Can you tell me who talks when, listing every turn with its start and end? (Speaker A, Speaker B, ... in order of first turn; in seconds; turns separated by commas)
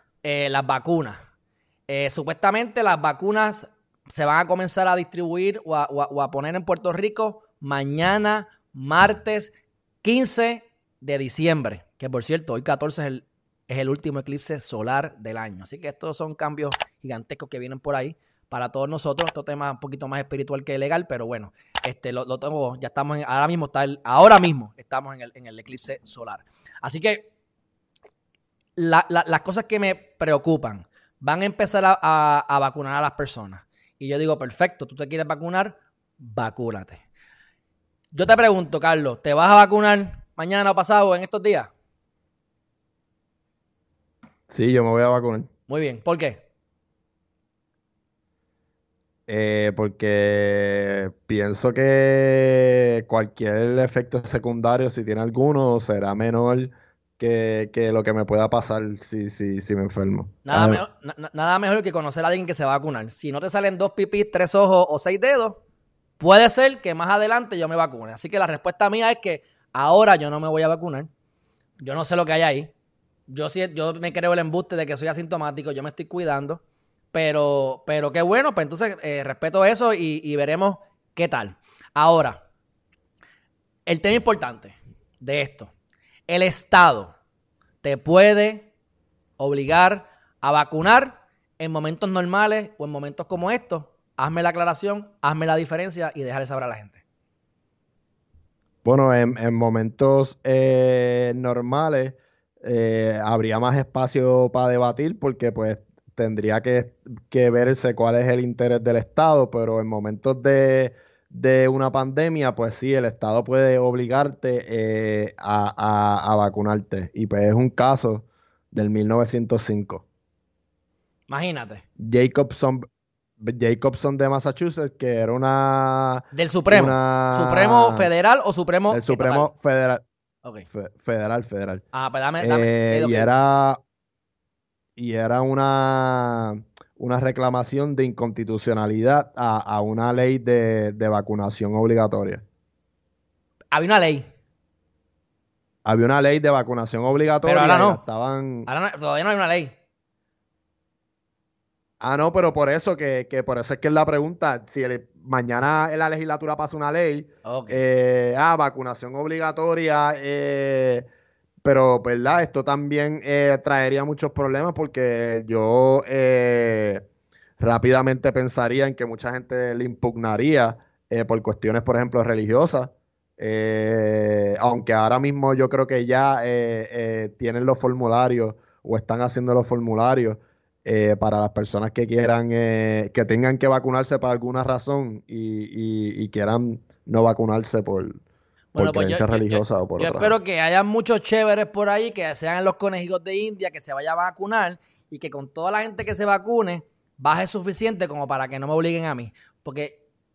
Speaker A: 0.2-1.2, Speaker A: 1.9-27.3, Speaker A: 28.8-37.0, Speaker A: 38.1-41.7, Speaker B: 44.5-45.5, Speaker A: 45.7-46.4, Speaker B: 49.3-60.8, Speaker A: 60.5-65.6, Speaker A: 66.2-71.1, Speaker A: 71.8-72.7, Speaker A: 73.3-76.6, Speaker A: 77.1-82.5, Speaker A: 83.9-85.7, Speaker A: 86.3-87.2, Speaker A: 87.8-88.7, Speaker A: 89.4-97.0, Speaker B: 98.8-120.0, Speaker A: 121.3-121.8, Speaker B: 122.0-122.9, Speaker B: 123.4-128.1, Speaker A: 126.3-129.5, Speaker B: 128.9-130.0, Speaker B: 130.7-131.8, Speaker A: 131.9-133.3, Speaker B: 132.4-133.8, Speaker B: 135.0-142.4, Speaker A: 143.7-144.3, Speaker B: 145.8-148.7, Speaker A: 147.4-148.0, Speaker A: 148.7-149.8, Speaker B: 152.0-161.1, Speaker A: 157.4-157.8, Speaker B: 161.6-167.0, Speaker B: 167.6-188.2, Speaker A: 188.7-200.0, Speaker B: 188.8-190.4